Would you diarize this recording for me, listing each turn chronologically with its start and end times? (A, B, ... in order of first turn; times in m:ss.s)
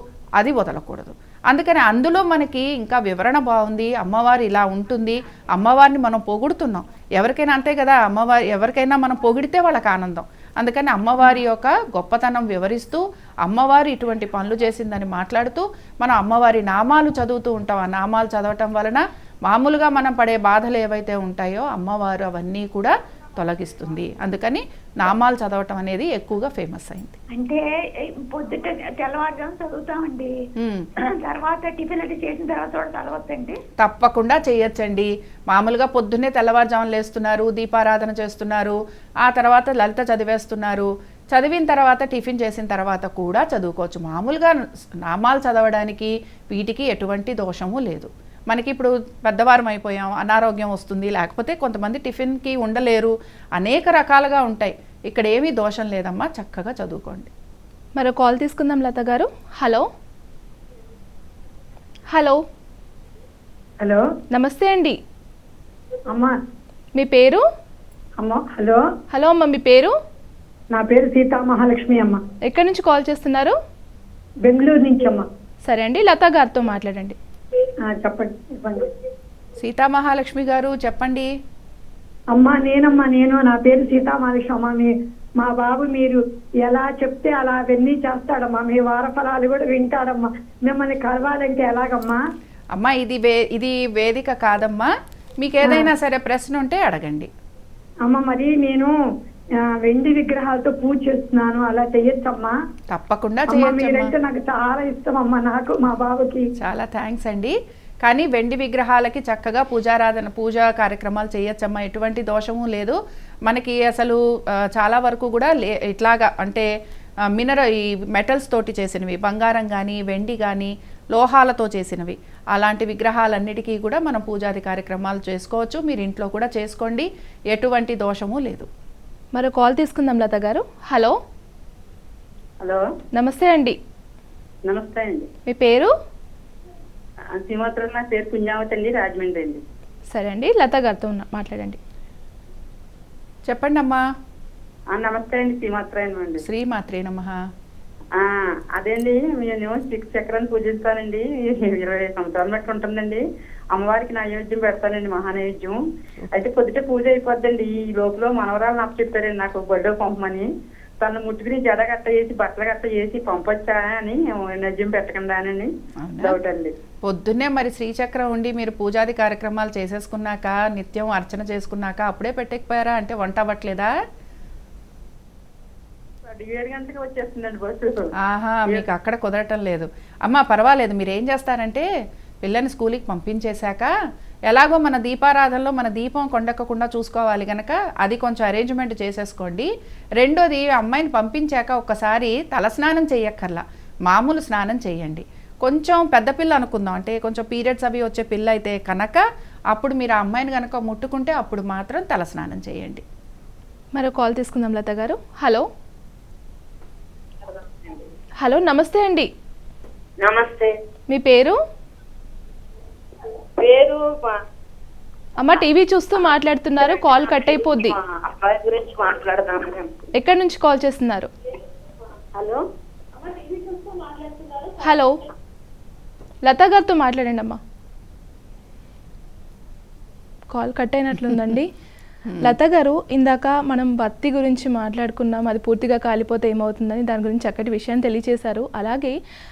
0:00.4-0:27.2 A
0:27.3-0:30.3 B
0:30.6-0:30.9 A
0:31.0-0:33.6 B
0:33.8-0:57.3 A
0:58.0-0:59.9 C
1:02.1-1:02.4 C
1:04.3-1:05.0 C
1:06.1-1:06.4 D
1:07.0-1:07.4 C
1:08.2-1:08.8 D
1:09.1-1:09.9 C
1:10.7-1:12.2 D
1:12.4-1:13.5 C
1:14.4-1:15.2 D
1:15.6-1:17.2 C
1:17.8-1:18.9 D
1:19.6-1:21.3 A
1:22.3-1:32.2 D
1:32.7-1:37.3 A
1:35.6-1:35.9 D
1:38.0-1:38.9 D
1:39.6-1:42.5 D
1:42.9-1:44.1 A
1:43.5-1:46.4 D
1:46.6-1:56.6 A
1:57.3-2:08.7 A
2:09.3-2:11.2 C
2:12.6-2:12.8 E
2:13.1-2:13.8 C
2:14.7-2:15.3 E
2:15.5-2:15.9 C
2:17.3-2:19.6 E
2:20.1-2:21.8 C
2:23.5-2:24.0 A
2:24.9-2:26.4 E
2:26.4-2:27.3 A
2:28.1-2:35.8 E
2:36.3-2:40.5 E
2:41.0-2:46.7 E
2:46.0-2:46.4 A
2:47.0-2:53.9 A
2:56.2-2:58.1 E
2:58.2-3:01.8 A
3:02.4-3:03.9 A
3:04.5-3:23.0 A
3:23.9-3:25.6 C
3:28.4-3:29.3 C
3:30.3-3:30.7 F
3:31.1-3:31.6 C
3:33.6-3:34.3 F
3:35.4-3:38.0 C
3:38.2-3:39.9 F
3:40.2-3:41.3 C
3:44.8-3:45.2 C
3:46.4-3:47.6 C
3:50.5-3:51.7 C
3:51.2-3:51.6 A
3:52.2-3:52.6 A
3:52.4-3:59.1 C